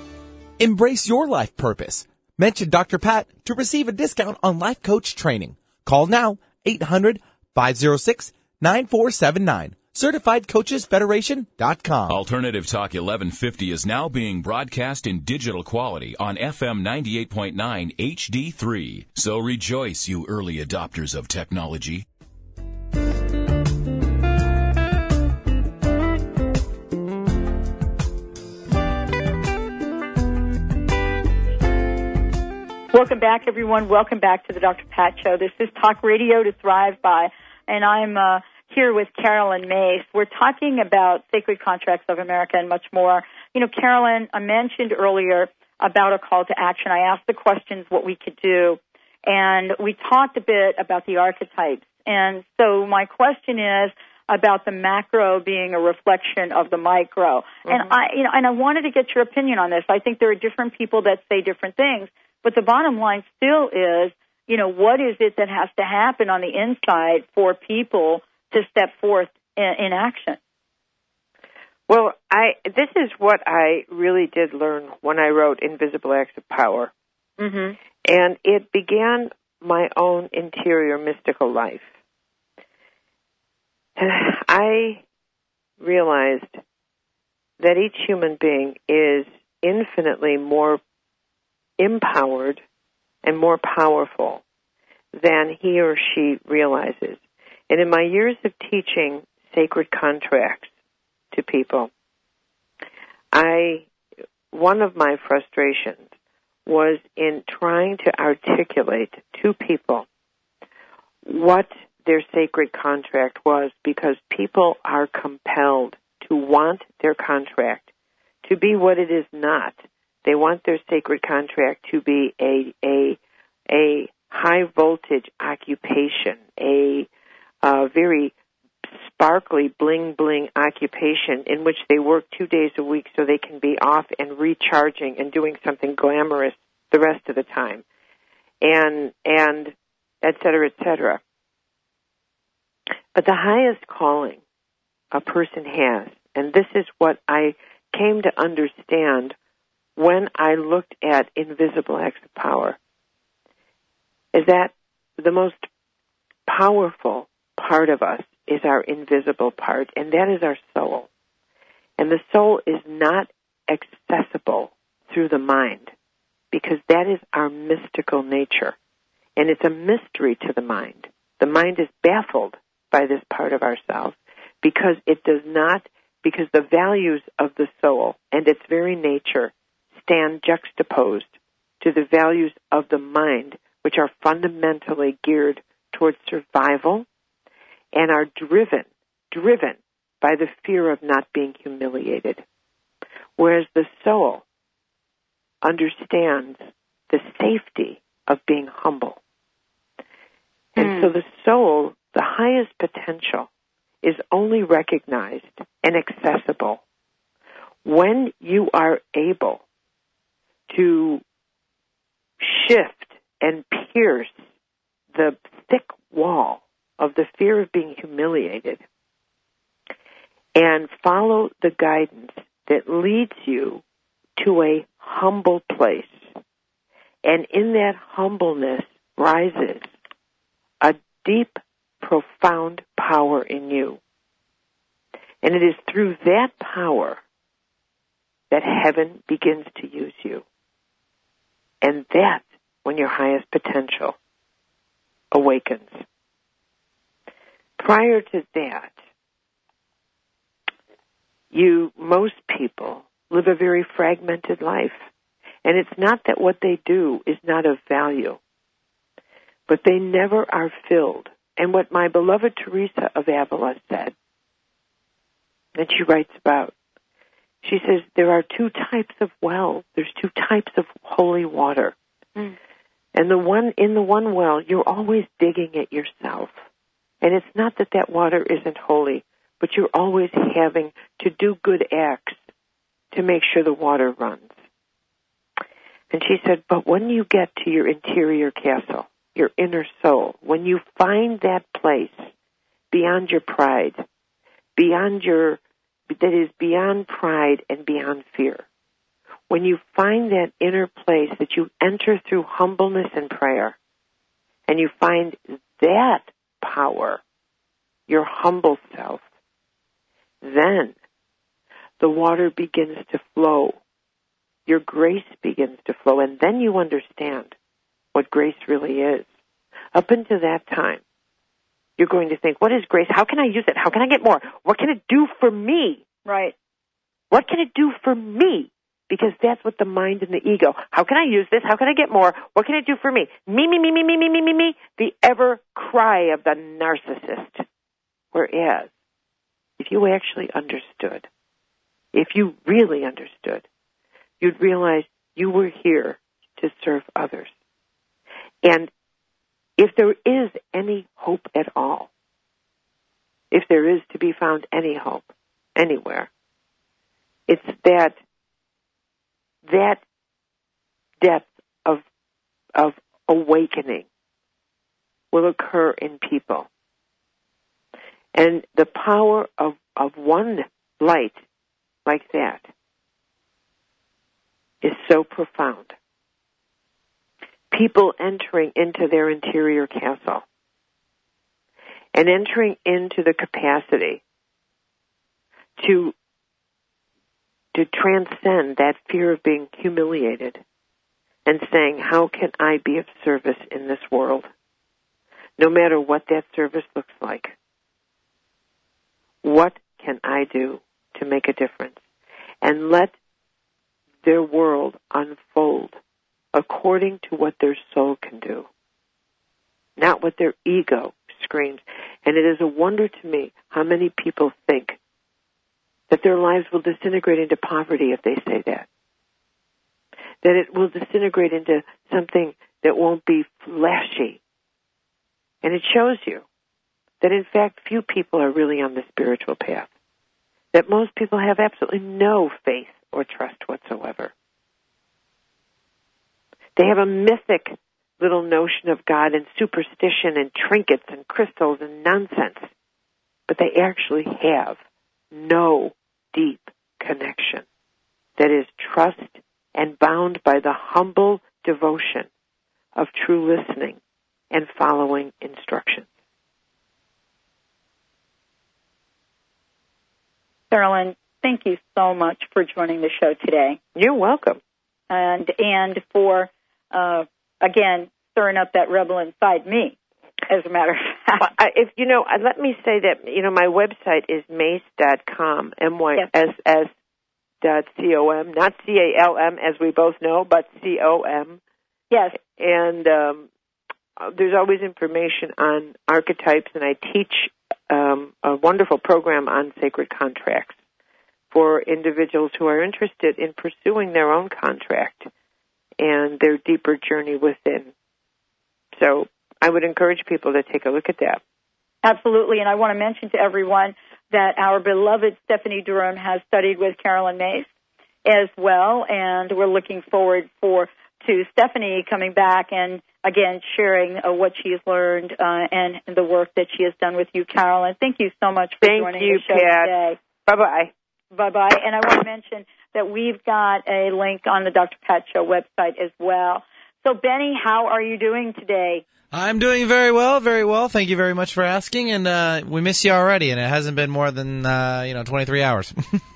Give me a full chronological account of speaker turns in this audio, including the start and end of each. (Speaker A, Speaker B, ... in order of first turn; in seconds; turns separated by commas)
Speaker A: 0.6-12.2, Speaker B: 12.1-22.1, Speaker C: 32.9-70.4, Speaker D: 71.9-76.9, Speaker C: 77.4-77.8, Speaker D: 78.0-81.9, Speaker D: 84.0-85.0, Speaker D: 85.8-86.6, Speaker D: 87.6-90.8, Speaker D: 91.8-92.6, Speaker D: 93.2-94.4, Speaker D: 95.2-100.7, Speaker D: 101.3-101.9, Speaker D: 103.3-103.9, Speaker D: 104.5-106.1, Speaker D: 106.7-110.1, Speaker D: 111.2-117.9, Speaker D: 118.4-123.2, Speaker D: 123.7-127.1, Speaker D: 127.6-128.3, Speaker D: 128.9-137.8, Speaker D: 138.6-141.2, Speaker D: 143.2-144.4, Speaker D: 145.1-149.4, Speaker D: 150.0-152.8, Speaker D: 154.3-155.7, Speaker D: 156.5-161.1, Speaker D: 162.0-165.9, Speaker D: 166.5-168.8, Speaker D: 169.4-187.1, Speaker D: 187.9-192.4, Speaker D: 193.4-194.4, Speaker D: 195.6-199.2, Speaker C: 200.8-201.1, Speaker D: 200.8-203.5, Speaker D: 204.0-206.8, Speaker D: 207.8-209.6, Speaker D: 210.7-211.2, Speaker D: 212.4-214.4, Speaker D: 215.1-218.8, Speaker D: 220.6-223.8, Speaker D: 224.4-226.3, Speaker D: 227.2-229.9, Speaker D: 230.8-234.0, Speaker D: 235.4-237.2, Speaker D: 238.5-240.4, Speaker D: 241.8-244.2, Speaker D: 245.3-246.1, Speaker D: 247.8-249.0, Speaker D: 251.5-255.0, Speaker D: 255.7-258.4, Speaker D: 259.7-264.1, Speaker D: 265.8-266.7, Speaker D: 267.6-271.9, Speaker D: 273.1-276.6, Speaker D: 277.2-282.4, Speaker D: 283.1-284.6, Speaker D: 286.1-292.3, Speaker D: 292.9-294.1, Speaker D: 294.8-298.7, Speaker D: 299.5-303.8, Speaker D: 304.7-307.2, Speaker D: 308.1-309.2, Speaker D: 310.4-310.9, Speaker D: 312.0-313.8, Speaker D: 314.7-317.6, Speaker D: 318.1-319.3, Speaker D: 319.9-321.0, Speaker D: 322.0-326.0, Speaker C: 326.2-326.6, Speaker D: 327.3-337.6, Speaker D: 338.3-338.9, Speaker D: 339.8-341.3, Speaker D: 342.1-343.7, Speaker D: 344.4-347.5, Speaker D: 348.6-348.9, Speaker D: 349.8-352.1, Speaker D: 353.5-356.3, Speaker D: 357.5-358.2, Speaker D: 359.6-360.0, Speaker D: 361.2-362.0, Speaker D: 362.8-364.1, Speaker D: 365.3-366.7, Speaker D: 368.3-371.4, Speaker D: 372.1-372.7, Speaker D: 374.8-375.9, Speaker D: 377.7-380.4, Speaker D: 382.1-384.2, Speaker D: 385.8-386.1, Speaker D: 387.7-390.6, Speaker D: 391.5-394.5, Speaker D: 395.6-397.6, Speaker D: 399.4-402.0, Speaker D: 402.6-403.1, Speaker D: 404.2-406.0, Speaker D: 406.5-408.7, Speaker D: 410.0-415.0, Speaker D: 416.1-418.9, Speaker D: 420.4-424.4, Speaker D: 425.6-426.4, Speaker D: 427.2-429.9, Speaker D: 430.7-434.3, Speaker D: 436.8-442.7, Speaker D: 443.5-444.8, Speaker D: 445.3-447.6, Speaker D: 448.4-452.3, Speaker D: 452.9-454.0, Speaker D: 454.5-456.1, Speaker C: 460.7-463.8, Speaker D: 463.9-464.6, Speaker C: 465.1-470.0, Speaker C: 470.5-471.4, Speaker D: 471.4-476.9, Speaker D: 477.6-481.6, Speaker C: 482.1-482.4, Speaker D: 482.6-483.5, Speaker D: 484.2-490.8, Speaker D: 491.5-495.3, Speaker D: 496.0-497.9, Speaker D: 499.0-501.4, Speaker C: 502.0-507.7, Speaker C: 508.2-520.2, Speaker D: 518.8-520.9, Speaker C: 521.3-529.0, Speaker E: 529.3-536.0